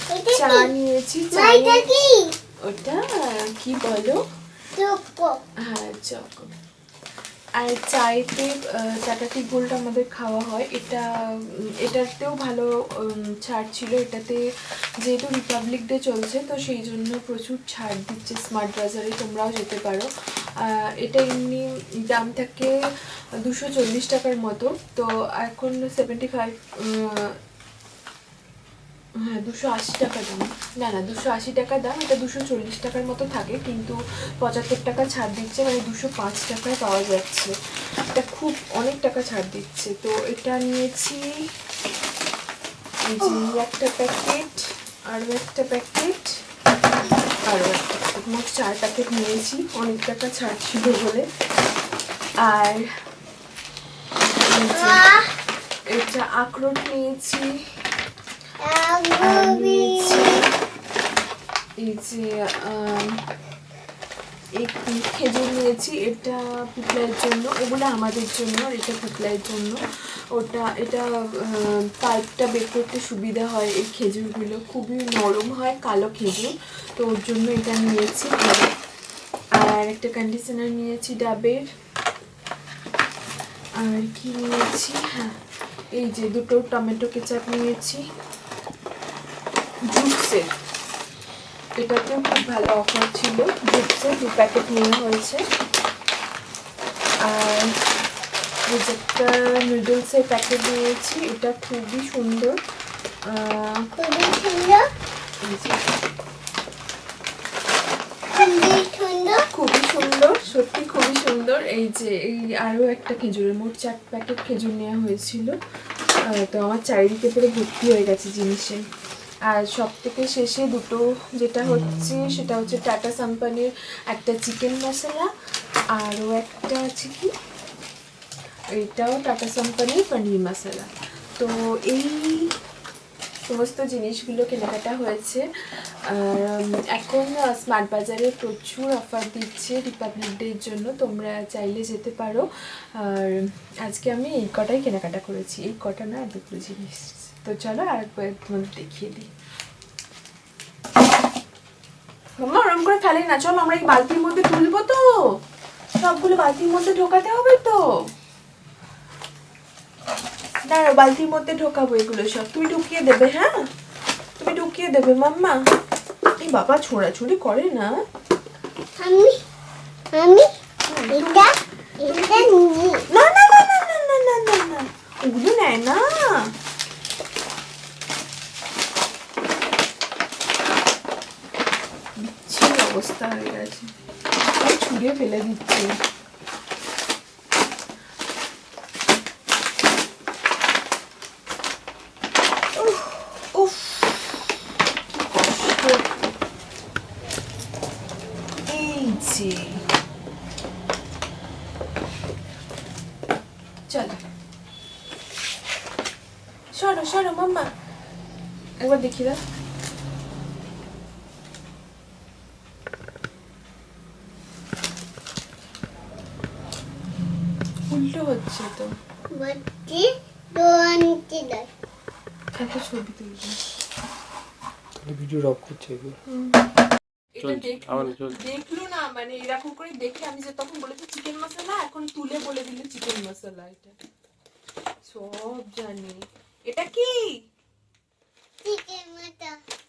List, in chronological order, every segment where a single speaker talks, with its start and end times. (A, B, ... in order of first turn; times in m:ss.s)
0:00.1-0:00.7 A
0:00.2-0:01.8 B
0:01.3-0:02.3 A
0:02.6-0:04.2 B
0:04.8-0:05.4 A
0:05.6-0:06.5 B
0:07.6-0:14.4 B
0:15.0-0:20.1 B
0:20.6-0:22.7 B
0:23.4-0:27.3 B
0:29.3-0:37.5 B
0:38.1-0:41.3 B
0:43.0-0:46.3 B
0:47.4-0:51.3 B
0:52.4-0:52.9 B
0:54.4-0:55.0 B
0:54.7-0:55.3 A
0:55.9-0:57.6 B
0:58.6-1:00.4 A
0:59.2-1:00.5 B
1:01.8-1:03.2 B
1:04.6-1:09.8 B
1:10.3-1:18.7 B
1:19.5-1:21.7 B
1:23.8-1:25.3 B
1:26.0-1:28.0 B
1:29.9-1:30.5 B
1:31.8-1:35.4 B
1:37.2-1:37.8 B
1:38.7-1:42.6 B
1:43.3-1:43.9 B
1:44.0-1:44.8 A
1:45.4-1:45.9 B
1:48.3-1:49.5 A
1:49.5-1:55.6 B
1:56.2-1:58.8 B
1:59.5-2:05.3 B
2:06.0-2:07.3 B
2:08.8-2:12.5 B
2:13.5-2:15.5 B
2:16.1-2:22.4 B
2:23.0-2:29.3 B
2:32.4-2:35.0 B
2:36.0-2:37.8 B
2:40.7-2:43.5 B
2:44.4-2:45.6 B
2:46.4-2:47.9 B
2:49.0-2:49.4 A
2:50.1-2:50.5 A
2:50.9-2:51.5 B
2:51.1-2:53.0 A
2:52.1-2:52.5 B
2:53.1-2:56.5 B
3:02.2-3:03.9 B
3:04.6-3:05.9 B
3:12.8-3:14.5 B
3:15.2-3:16.3 B
3:18.7-3:19.8 B
3:23.9-3:24.2 B
3:26.8-3:27.7 B
3:28.8-3:29.4 B
3:37.9-3:38.9 B
3:39.3-3:41.7 A
3:42.6-3:43.6 B
3:45.0-3:46.2 C
3:46.3-3:46.6 B
3:47.4-3:54.0 B
3:47.4-3:48.4 C
3:55.0-3:57.3 B
3:58.6-3:59.6 A